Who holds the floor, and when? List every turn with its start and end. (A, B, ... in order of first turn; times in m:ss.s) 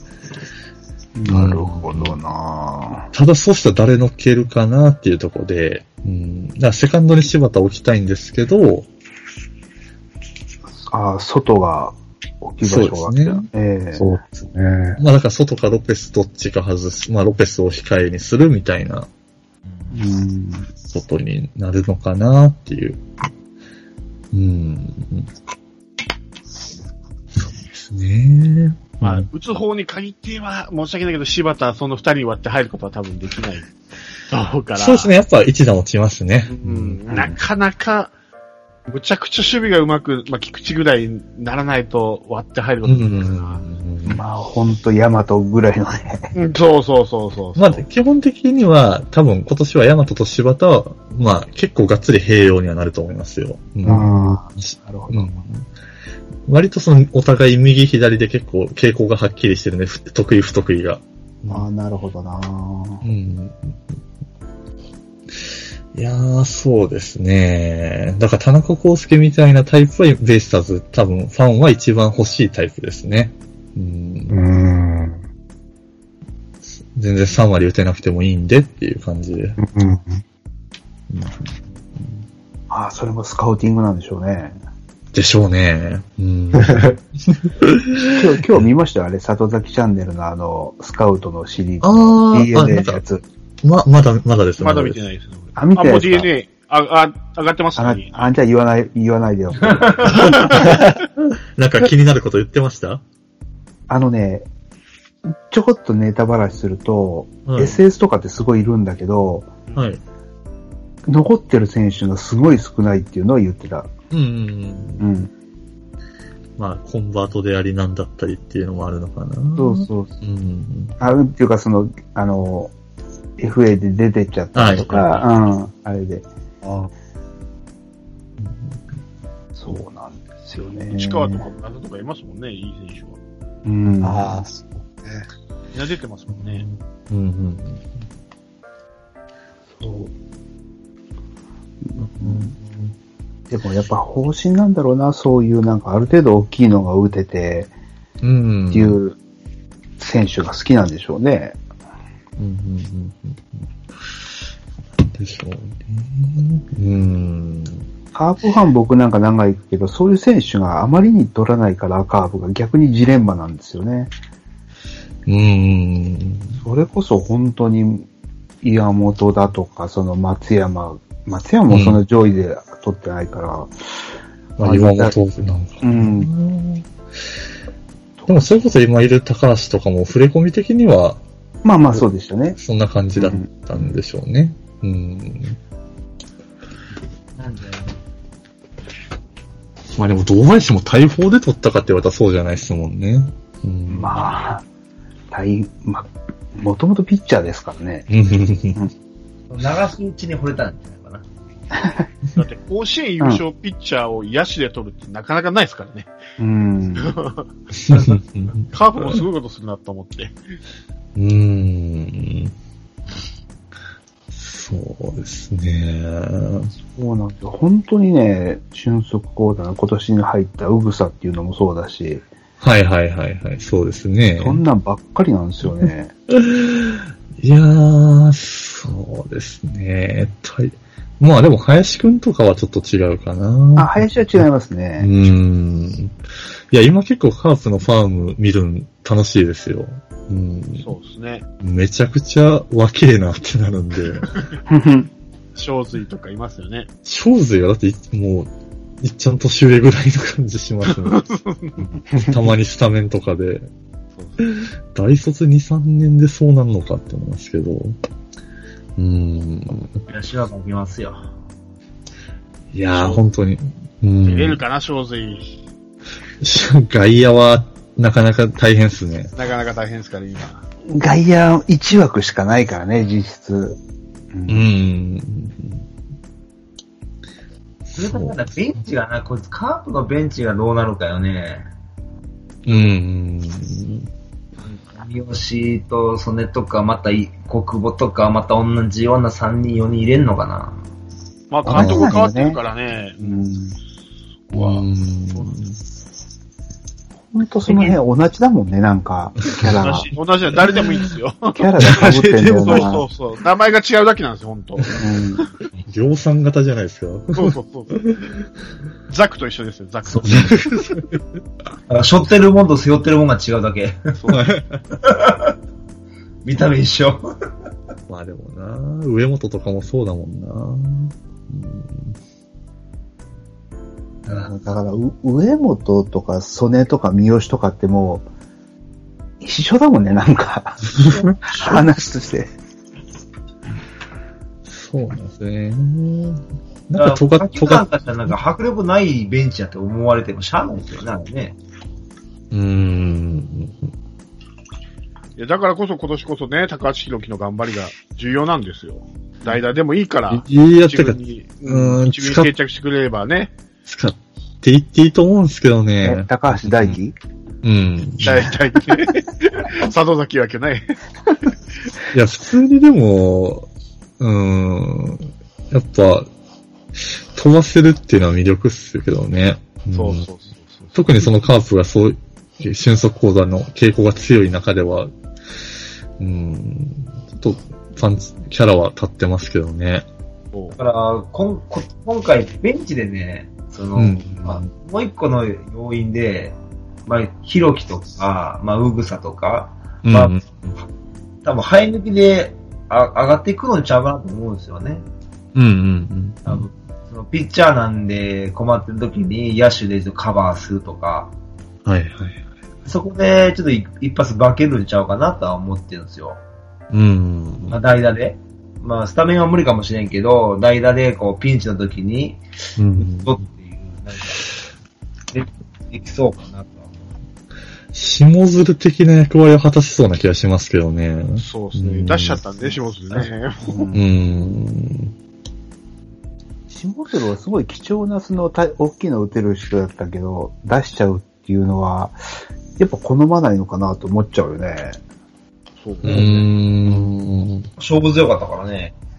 0:01.1-0:03.1 A
0:01.3-0:02.2 B
0:03.1-0:08.9 B
0:10.8-0:14.2 A
0:12.6-0:13.5 B
0:14.0-0:15.0 C
0:15.0-0:19.1 B
0:19.9-0:20.7 A
0:20.9-0:23.0 B
0:24.3-0:25.3 B
0:27.3-0:29.3 B
0:29.0-0:33.7 D
0:34.3-0:35.1 D
0:34.7-0:37.4 B
0:36.5-0:38.1 D
0:38.9-0:43.6 D
0:42.8-0:44.2 B
0:44.0-0:46.3 A
0:46.3-0:47.8 D
0:47.6-0:54.0 B
0:53.8-0:55.4 A
0:53.8-0:54.4 C
0:54.6-0:55.6 B
0:56.5-1:01.6 B
1:01.5-1:03.0 A
1:03.0-1:03.8 B
1:05.4-1:14.4 B
1:14.3-1:15.2 C
1:16.9-1:19.6 B
1:19.6-1:20.2 C
1:21.1-1:22.2 B
1:22.7-1:24.6 A
1:25.1-1:28.6 B
1:26.6-1:26.9 C
1:28.1-1:33.2 A
1:31.8-1:33.0 B
1:33.6-1:35.0 B
1:34.6-1:38.1 D
1:35.6-1:36.3 A
1:37.8-1:40.6 A
1:39.6-1:40.2 E
1:40.2-1:40.8 D
1:40.3-1:41.0 B
1:41.6-1:43.0 B
1:43.9-1:44.5 A
1:45.3-1:49.5 A
1:47.4-1:47.8 B
1:49.8-1:50.0 B
1:51.0-1:53.9 A
1:54.1-1:55.0 B
1:55.0-1:55.3 A
1:56.6-2:01.0 B
1:59.6-2:00.1 A
2:01.0-2:02.7 A
2:03.4-2:06.2 A
2:04.5-2:05.2 B
2:06.6-2:06.9 C
2:08.4-2:08.7 B
2:09.6-2:11.4 A
2:10.9-2:13.2 D
2:13.6-2:14.4 A
2:14.0-2:15.3 C
2:15.7-2:16.6 D
2:16.3-2:17.9 B
2:19.7-2:20.1 A
2:21.9-2:22.5 A
2:22.0-2:22.9 B
2:23.5-2:27.7 A
2:28.2-2:29.0 B
2:28.7-2:29.2 A
2:30.0-2:31.6 A
2:32.4-2:33.6 B
2:35.1-2:37.8 B
2:38.1-2:44.1 A
2:45.3-2:46.6 B
2:46.6-2:48.1 A
2:48.6-2:53.7 A
2:51.7-2:52.0 B
2:54.6-2:56.8 B
2:54.6-2:55.1 A
2:55.8-2:56.3 A
2:58.3-3:01.2 B
3:01.6-3:02.6 A
3:02.6-3:05.6 B
3:03.2-3:03.5 A
3:07.4-3:07.9 E
3:09.9-3:14.3 B
3:13.9-3:14.6 A
3:15.3-3:18.1 A
3:18.1-3:18.8 B
3:19.5-3:21.2 E
3:21.7-3:22.0 A
3:22.3-3:26.1 D
3:26.4-3:27.1 A
3:27.0-3:27.5 D
3:27.8-3:29.2 B
3:27.9-3:28.2 E
3:28.7-3:30.4 D
3:31.2-3:32.5 B
3:34.3-3:36.7 B
3:36.9-3:42.2 A
3:42.6-3:44.6 B
3:44.4-3:46.1 A
3:46.3-3:54.4 B
3:53.8-3:55.1 A
3:55.0-3:56.2 B
3:56.7-4:00.9 B
4:00.8-4:01.4 D
4:01.6-4:04.3 B
4:04.2-4:04.6 D
4:04.7-4:05.1 A
4:05.5-4:06.9 D
4:07.0-4:08.5 B
4:09.0-4:11.2 B
4:10.8-4:11.9 D
4:12.2-4:13.7 B
4:14.4-4:18.0 B
4:19.0-4:19.9 B
4:20.0-4:21.3 E
4:22.7-4:24.6 B
4:22.9-4:23.2 D
4:24.2-4:25.5 D
4:26.4-4:29.3 B
4:29.3-4:30.6 D
4:30.9-4:33.8 A
4:34.3-4:34.7 A
4:34.5-4:35.8 B
4:37.9-4:38.4 B
4:37.9-4:41.7 E
4:42.6-4:44.1 B
4:44.6-4:50.8 E
4:51.5-4:53.5 D
4:51.6-4:52.6 A
4:51.7-4:52.1 B
4:53.2-4:53.8 A
4:54.5-4:55.5 D
4:54.5-4:55.8 B
4:57.3-5:00.1 A
4:57.7-4:57.9 D
4:59.4-4:59.8 B
4:59.7-5:05.4 D
5:00.5-5:01.1 B
5:01.5-5:03.0 A
5:01.8-5:02.9 B
5:05.0-5:05.4 A
5:05.8-5:08.4 B
5:07.3-5:07.9 D
5:09.1-5:11.0 D
5:10.2-5:11.1 B
5:11.9-5:14.1 E
5:14.2-5:14.4 D
5:14.3-5:14.8 B
5:15.0-5:15.5 E
5:16.4-5:17.2 E
5:18.1-5:22.2 B
5:24.3-5:28.2 A
5:29.4-5:32.5 A
5:31.0-5:31.4 B
5:34.7-5:38.3 B
5:37.0-5:41.6 E
5:42.5-5:43.8 B
5:45.4-5:53.5 D
5:50.3-5:52.5 B
5:53.8-5:57.0 B
5:56.0-5:57.2 A
5:57.6-5:58.5 B
5:58.2-6:01.0 D
6:02.1-6:03.7 B
6:04.2-6:06.3 B
6:07.0-6:10.2 B
6:09.9-6:11.0 D
6:10.9-6:15.1 B
6:16.2-6:20.0 B
6:20.7-6:26.6 E
6:24.0-6:24.7 B
6:27.1-6:30.3 E
6:30.0-6:30.7 B
6:31.4-6:35.0 E
6:35.5-6:36.6 B
6:36.4-6:41.3 E
6:41.8-6:42.4 B
6:42.8-6:46.4 E
6:46.9-6:47.8 B
6:47.7-6:52.4 E
6:52.8-6:53.4 B
6:53.0-6:54.5 E
6:55.3-6:57.1 E
6:57.9-7:02.4 B
7:01.4-7:03.9 D
7:03.6-7:04.0 A
7:03.9-7:05.1 B
7:06.7-7:12.2 A
7:12.8-7:15.0 A
7:15.8-7:16.5 D
7:16.0-7:17.7 B
7:17.8-7:18.9 E